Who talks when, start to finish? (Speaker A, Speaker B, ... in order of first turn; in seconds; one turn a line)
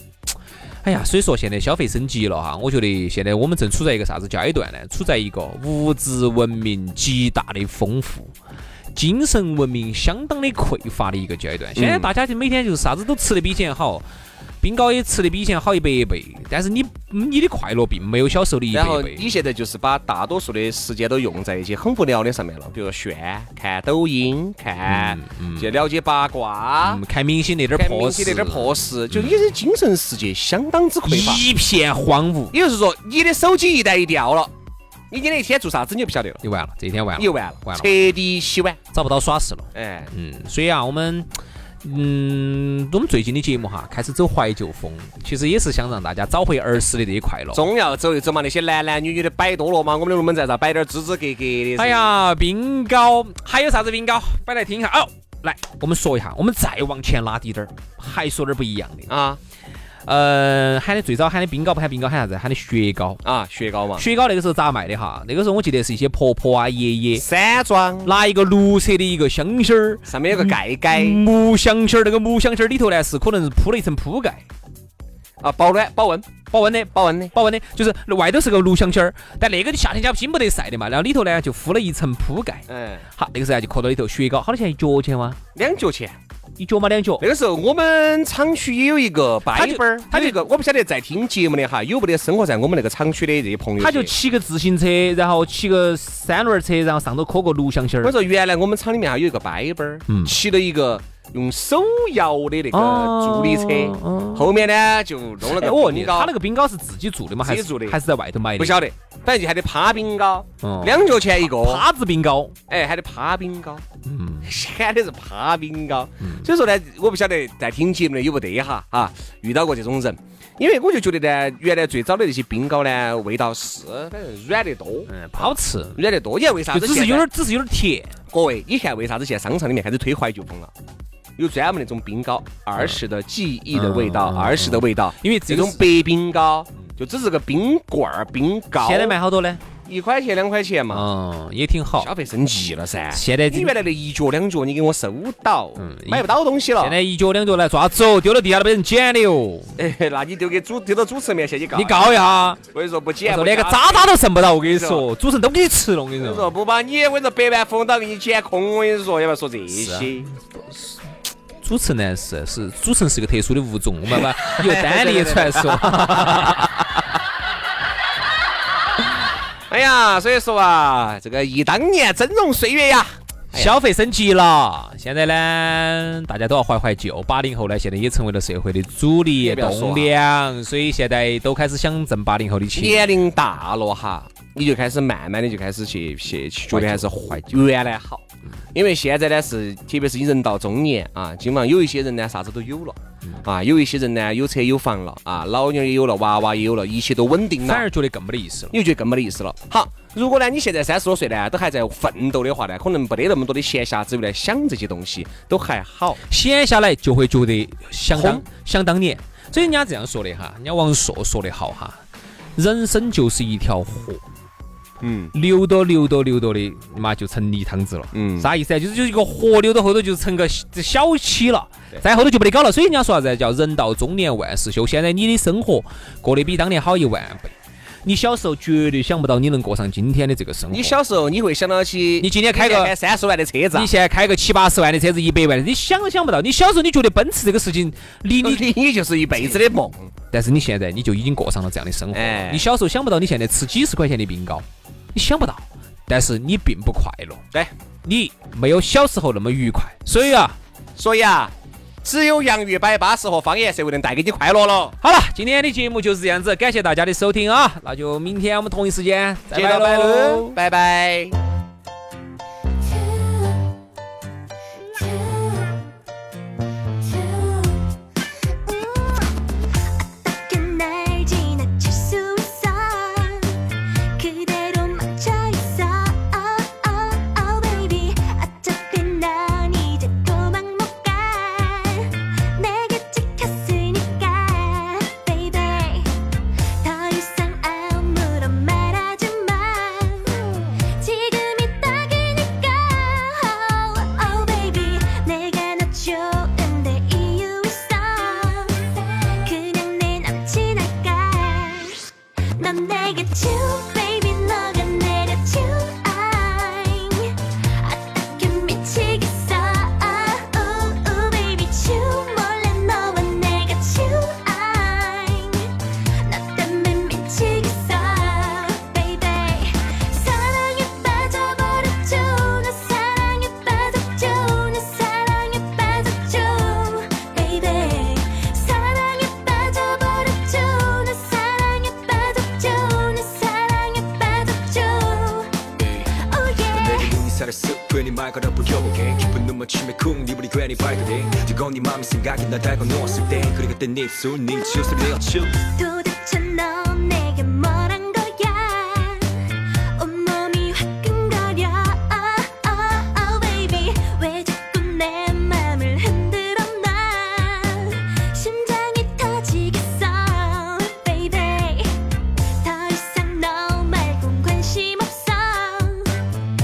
Speaker A: 0.8-8.3
Speaker A: 8.9-14.1
Speaker B: 11.7-12.1
Speaker A: 14.6-19.3
Speaker B: 18.7-27.0
Speaker A: 24.8-25.8
Speaker A: 26.8-29.4
Speaker B: 27.7-31.4
Speaker A: 31.0-32.5
Speaker B: 32.5-34.5
Speaker B: 35.1-36.4
Speaker A: 36.4-37.9
Speaker B: 37.1-38.8
Speaker A: 38.9-41.3
Speaker B: 39.7-40.1
Speaker A: 41.8-47.7
Speaker B: 47.5-52.1
Speaker A: 51.8-59.1
Speaker B: 59.1-59.4
Speaker A: 60.0-63.2
Speaker B: 63.2-64.0
Speaker A: 64.0-67.2
Speaker B: 67.1-68.1
Speaker A: 68.0-74.4
Speaker B: 70.0-71.2
Speaker B: 75.4-76.3
Speaker A: 76.5-85.4
Speaker B: 76.9-77.3
Speaker B: 82.7-83.0
Speaker B: 85.5-86.2
Speaker A: 86.6-87.2
Speaker B: 87.2-94.1
Speaker A: 89.5-90.4
Speaker A: 93.8-98.1
Speaker B: 98.0-106.3
Speaker A: 100.1-100.3
Speaker A: 102.7-104.5
Speaker A: 105.4-108.8
Speaker B: 107.4-108.0
Speaker B: 108.6-111.8
Speaker A: 110.6-112.5
Speaker B: 112.7-113.8
Speaker A: 114.0-114.5
Speaker B: 114.4-127.3
Speaker A: 125.1-126.0
Speaker A: 126.7-128.1
Speaker B: 128.3-130.7
Speaker B: 131.4-139.2
Speaker A: 133.7-135.9
Speaker A: 138.8-139.6
Speaker B: 139.8-141.1
Speaker A: 140.9-142.1
Speaker B: 142.0-147.0
Speaker A: 143.1-143.7
Speaker A: 145.8-146.2
Speaker A: 146.8-149.7
Speaker B: 149.8-155.1
Speaker A: 151.7-152.6
Speaker A: 153.2-156.5
Speaker B: 156.2-160.3
Speaker A: 159.7-161.0
Speaker A: 161.6-166.7
Speaker B: 164.1-166.7
Speaker B: 169.7-173.8
Speaker A: 173.5-183.1
Speaker B: 179.4-180.1
Speaker B: 182.7-197.9
Speaker A: 186.7-187.5
Speaker A: 197.6-198.8
Speaker B: 198.7-206.2
Speaker A: 206.2-212.0
Speaker B: 208.1-208.4
Speaker A: 212.6-214.2
Speaker B: 215.0-215.3
Speaker A: 215.3-230.9
Speaker B: 218.1-218.5
Speaker B: 230.7-233.9
Speaker A: 232.2-232.9
Speaker A: 233.7-238.7
Speaker B: 238.4-240.1
Speaker A: 239.3-239.6
Speaker A: 240.3-247.4
Speaker B: 242.1-242.6
Speaker A: 248.0-250.6
Speaker B: 250.9-251.5
Speaker B: 252.0-255.0
Speaker A: 255.0-260.6
Speaker B: 259.5-261.4
Speaker C: 267.2-267.7
Speaker C: 268.7-269.2
Speaker C: 270.2-286.2
Speaker C: 286.8-337.2
Speaker D: 336.7-345.5
Speaker C: 345.5-366.3